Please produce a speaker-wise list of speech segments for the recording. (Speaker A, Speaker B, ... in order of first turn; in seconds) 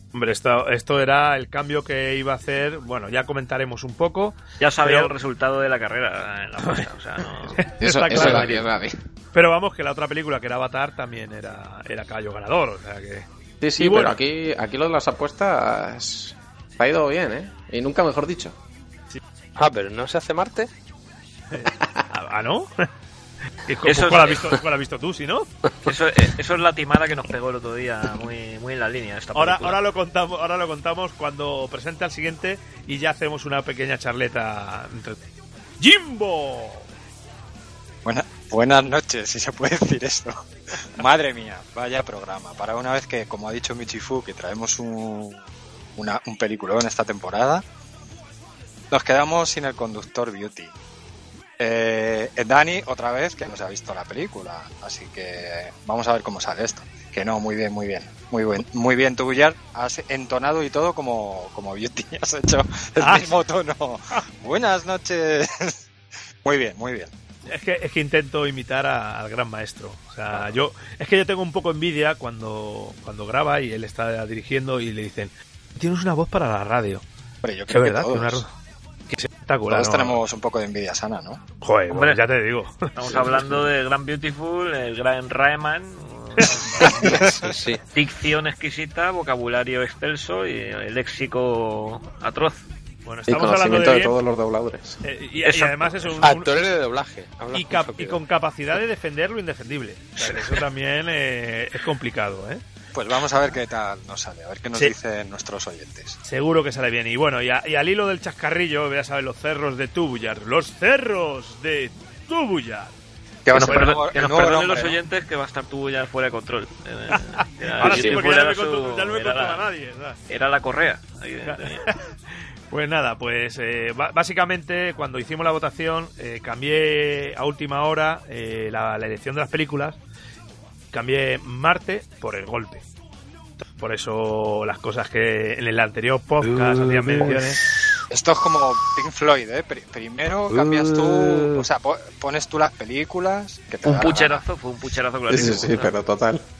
Speaker A: 0.1-5.1, 6.6-6.9, 7.5-8.6, 9.3-14.2, 21.5-22.9, 23.6-25.5, 29.3-35.2, 35.8-36.8, 63.0-63.3, 67.5-77.0, 77.7-78.5, 79.1-80.2, 81.6-83.2, 93.0-94.1, 95.0-96.5, 97.5-102.6, 106.2-112.9, 113.6-114.0, 117.1-120.2, 121.4-122.0, 122.7-130.0, 130.9-132.8, 133.6-137.6
Speaker B: 4.6-8.7, 23.8-24.4, 25.8-29.8, 81.9-82.2, 82.9-87.2, 87.9-92.6, 100.2-100.6, 113.5-119.6, 120.3-121.8, 143.9-145.9
Speaker C: 7.8-8.9, 13.6-18.6, 93.3-95.0, 145.3-146.4
Speaker D: 19.6-20.7, 86.8-87.8, 96.2-98.2, 117.8-118.2
Speaker E: 38.0-45.4, 46.0-47.6, 48.9-50.7, 51.6-65.8, 66.4-67.1, 77.4-78.4, 79.7-81.4, 86.8-87.3, 102.9-106.2, 113.4-115.0, 138.1-144.4